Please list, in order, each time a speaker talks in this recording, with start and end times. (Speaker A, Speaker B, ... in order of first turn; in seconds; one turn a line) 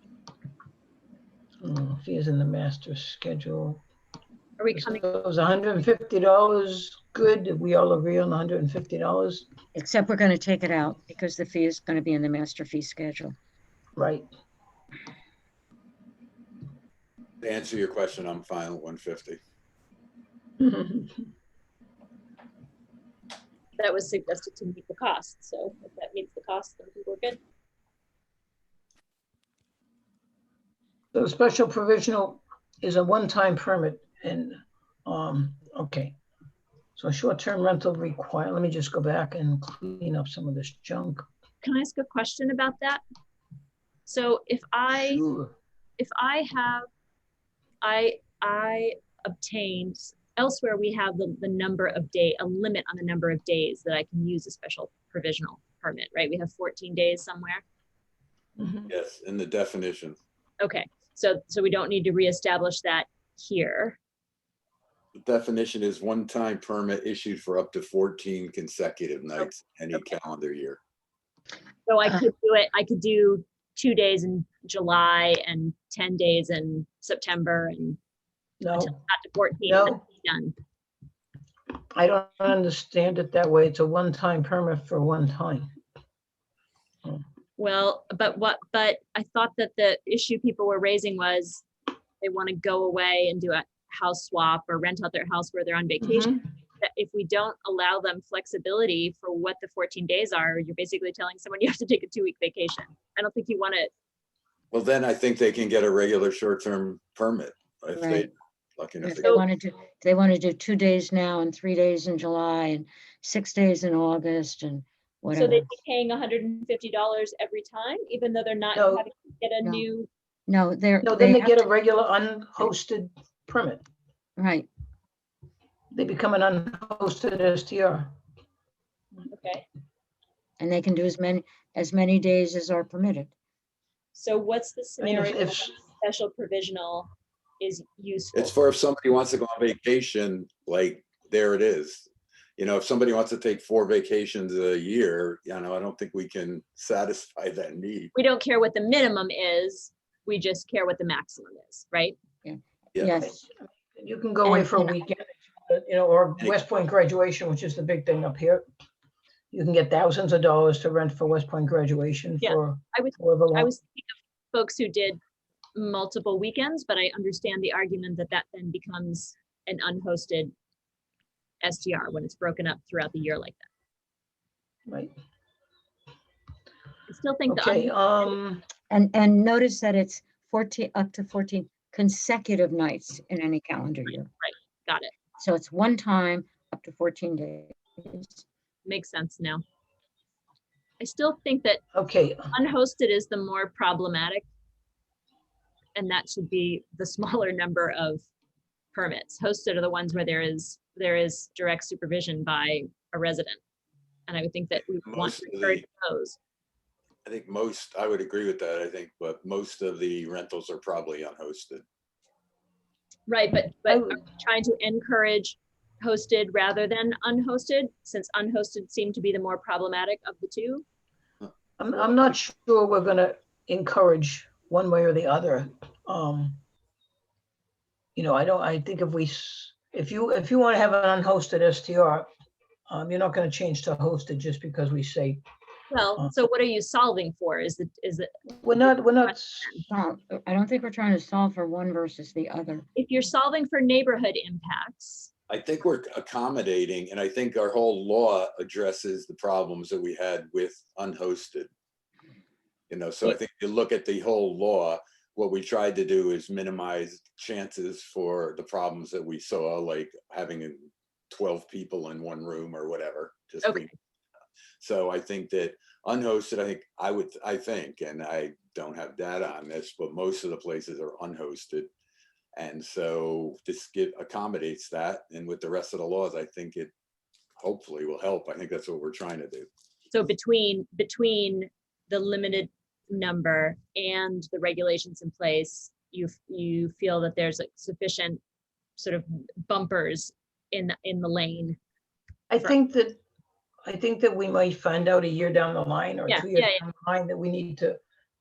Speaker A: 1.6-3.8
Speaker B: 4.6-5.0
Speaker A: 4.7-9.5
Speaker C: 9.8-13.3
Speaker A: 14.0-14.3
Speaker D: 17.4-19.4
Speaker A: 20.6-21.2
Speaker B: 23.8-27.4
Speaker A: 31.1-36.2
Speaker A: 37.0-41.3
Speaker B: 41.6-43.0
Speaker B: 44.1-45.2
Speaker A: 44.9-45.5
Speaker B: 46.0-46.9
Speaker B: 47.8-57.6
Speaker A: 58.6-58.9
Speaker D: 58.9-60.2
Speaker B: 60.6-64.0
Speaker D: 65.2-70.8
Speaker B: 69.4-70.1
Speaker B: 71.9-78.0
Speaker A: 78.6-79.0
Speaker B: 78.8-80.5
Speaker A: 79.7-80.0
Speaker A: 81.9-85.7
Speaker B: 87.6-91.7
Speaker B: 92.2-103.9
Speaker A: 96.0-96.4
Speaker D: 104.7-109.4
Speaker C: 108.0-108.3
Speaker C: 109.0-115.7
Speaker B: 115.3-120.1
Speaker A: 118.8-119.0
Speaker C: 120.5-121.7
Speaker A: 121.0-123.8
Speaker C: 124.4-124.7
Speaker A: 125.9-128.1
Speaker B: 129.3-129.7
Speaker C: 130.6-133.3
Speaker B: 134.1-138.5
Speaker A: 135.0-135.7
Speaker D: 138.3-148.1
Speaker B: 148.2-152.2
Speaker C: 152.4-153.4
Speaker A: 153.3-158.7
Speaker C: 154.4-155.0
Speaker A: 159.5-163.7
Speaker B: 162.4-165.2
Speaker B: 165.8-170.5
Speaker B: 171.6-173.7
Speaker A: 174.9-175.1
Speaker B: 177.1-178.3
Speaker A: 177.5-178.6
Speaker C: 178.9-184.3
Speaker B: 184.1-185.2
Speaker C: 185.4-188.4
Speaker B: 188.8-189.6
Speaker B: 191.0-191.8
Speaker A: 191.9-192.5
Speaker B: 192.5-194.4
Speaker B: 195.9-198.2
Speaker B: 198.9-203.6
Speaker B: 204.3-206.4
Speaker D: 205.0-205.8
Speaker D: 207.2-211.8
Speaker B: 213.3-220.8
Speaker A: 213.9-214.2
Speaker A: 221.8-226.6
Speaker A: 228.2-232.3
Speaker A: 232.9-235.4
Speaker B: 235.9-239.8
Speaker A: 238.6-239.8
Speaker C: 239.9-242.8
Speaker B: 243.0-245.3
Speaker D: 245.5-251.7
Speaker D: 252.9-263.9
Speaker B: 263.6-263.9
Speaker D: 264.8-271.9
Speaker D: 272.6-276.9
Speaker D: 277.6-279.7
Speaker B: 280.1-288.4
Speaker B: 289.0-291.8
Speaker A: 292.5-293.2
Speaker A: 293.9-298.0
Speaker B: 296.3-296.8